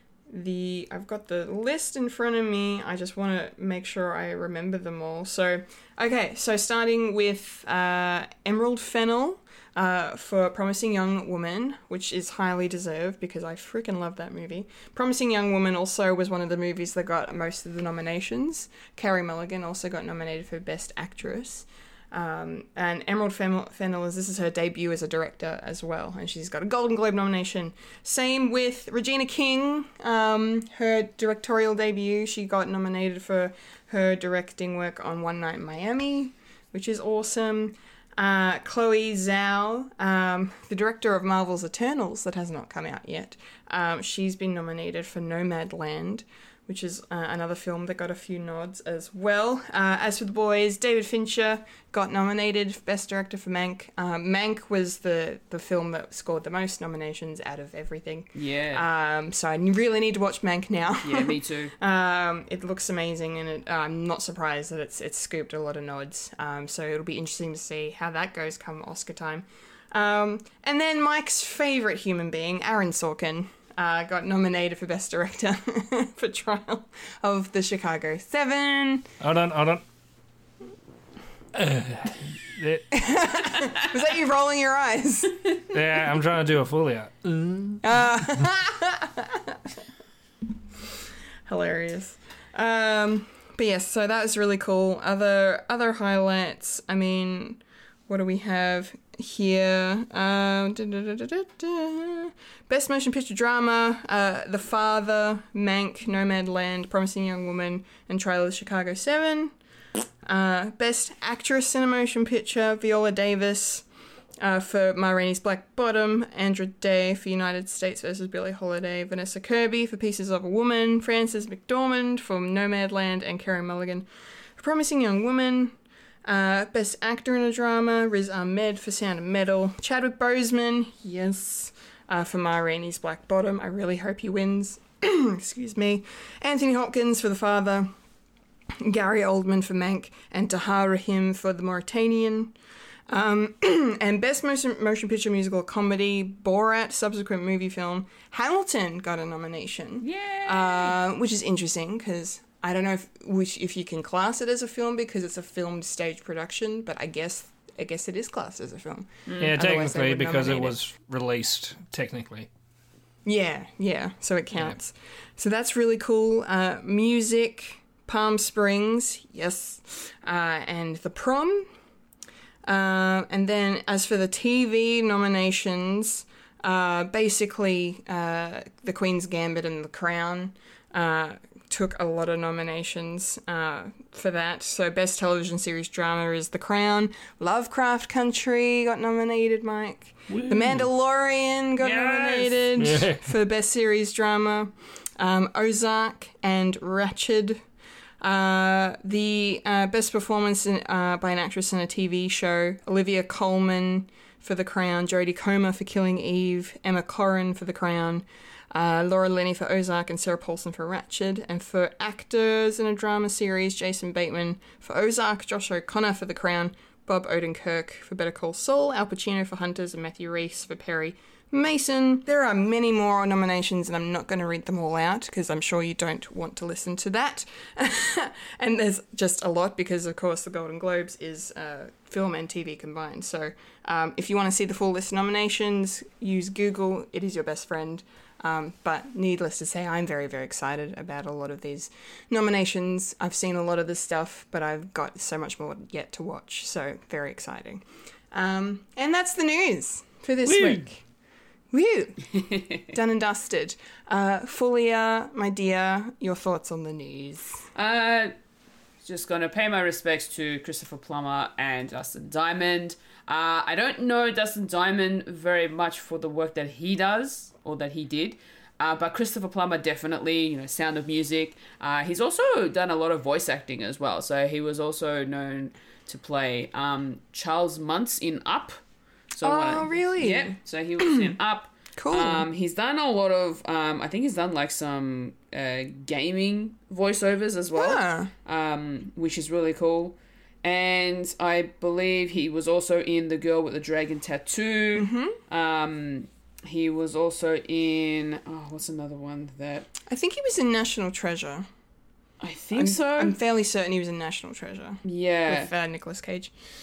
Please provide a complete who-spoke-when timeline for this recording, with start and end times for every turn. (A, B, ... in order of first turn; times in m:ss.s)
0:00.3-1:19.1 A
0:58.4-0:58.8 B
1:01.0-1:01.7 B
1:19.2-1:19.8 C
1:21.5-1:22.9 C
1:22.9-1:25.5 A
1:25.7-1:27.8 C
1:27.8-1:29.6 A
1:31.4-1:49.5 A
1:50.2-1:53.8 A
1:54.4-2:17.9 A
2:18.8-2:22.6 A
2:23.1-2:40.8 A
2:30.0-2:31.0 B
2:39.3-2:39.6 B
2:39.4-2:42.5 C
2:43.3-2:51.7 A
2:52.6-3:17.6 A
3:10.3-3:10.9 C
3:11.8-3:13.2 C
3:18.2-4:11.0 A
4:10.4-4:10.8 C
4:11.7-4:17.6 A
4:17.7-4:18.3 B
4:19.0-4:38.8 B
4:39.3-4:59.9 B
4:39.4-4:41.3 A
4:42.0-4:42.4 A
4:47.8-4:48.3 A
4:55.0-4:55.4 A
5:00.1-5:01.7 A
5:02.4-5:03.4 B
5:02.7-5:06.5 A
5:05.0-5:05.7 B